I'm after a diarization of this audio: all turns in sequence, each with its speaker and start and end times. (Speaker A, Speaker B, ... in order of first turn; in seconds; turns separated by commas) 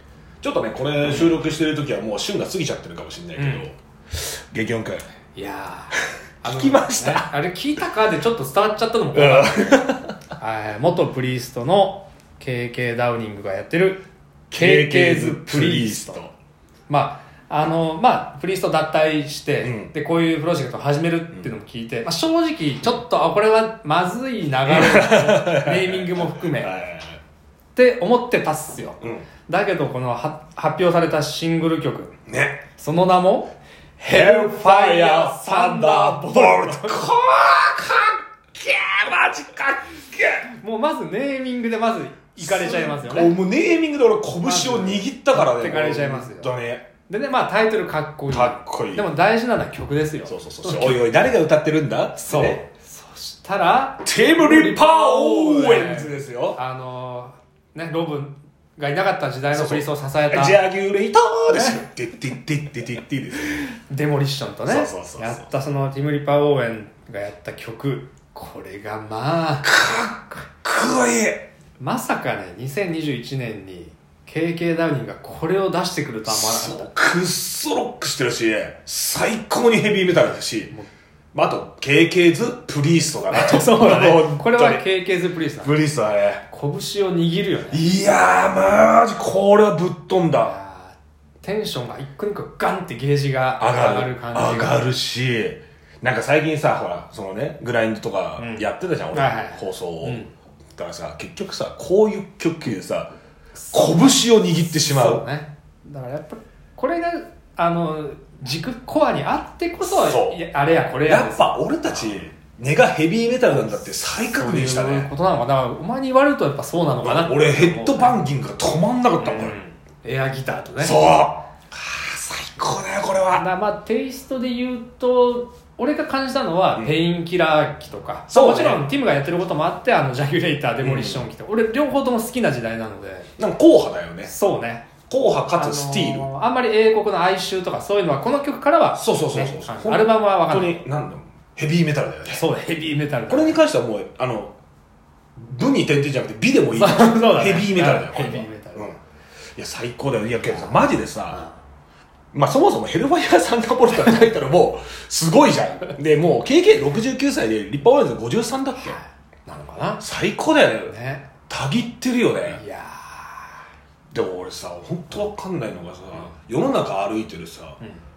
Speaker A: 0.4-5.0, Speaker B: 1.1-1.4, Speaker B: 3.4-3.7, Speaker B: 5.4-16.2, Speaker A: 6.4-7.4, Speaker A: 9.1-10.1, Speaker A: 14.5-16.3, Speaker B: 16.9-26.8, Speaker A: 19.6-19.9, Speaker A: 24.7-27.2, Speaker B: 27.8-32.1, Speaker A: 32.3-32.6, Speaker B: 32.8-37.0, Speaker A: 34.1-40.5, Speaker B: 40.6-43.4, Speaker A: 42.4-46.9, Speaker B: 44.4-46.5, Speaker B: 47.1-51.0, Speaker A: 48.3-49.1, Speaker A: 50.3-52.6, Speaker B: 52.2-60.6, Speaker A: 54.0-56.6, Speaker A: 59.5-63.7, Speaker B: 61.5-61.8, Speaker B: 63.9-69.7, Speaker A: 64.7-65.5, Speaker A: 69.6-71.5, Speaker B: 71.8-76.9, Speaker A: 76.3-80.7, Speaker A: 81.3-84.8, Speaker B: 83.3-85.8, Speaker A: 85.6-86.4, Speaker B: 86.5-87.9, Speaker A: 87.7-90.6, Speaker B: 90.4-94.8, Speaker A: 93.6-100.2, Speaker B: 98.4-100.3, Speaker A: 100.8-103.1, Speaker B: 103.6-112.2, Speaker A: 103.7-105.2, Speaker A: 109.8-110.4, Speaker A: 111.0-115.1, Speaker B: 113.5-118.3, Speaker A: 117.0-119.6, Speaker B: 119.2-121.0, Speaker A: 120.8-123.5, Speaker B: 123.3-133.3, Speaker A: 128.3-128.8, Speaker A: 130.8-131.3, Speaker A: 133.4-134.3, Speaker B: 134.3-134.9, Speaker A: 135.1-136.3, Speaker B: 135.6-140.8, Speaker A: 139.0-142.4, Speaker B: 142.3-143.6, Speaker A: 143.3-144.5, Speaker A: 145.4-149.0, Speaker B: 146.7-149.0, Speaker A: 149.6-151.4, Speaker B: 150.5-151.6, Speaker A: 152.3-159.0, Speaker B: 158.8-160.0, Speaker A: 160.0-160.9, Speaker B: 160.9-161.3, Speaker A: 161.5-162.6, Speaker B: 162.5-163.6, Speaker A: 164.1-167.8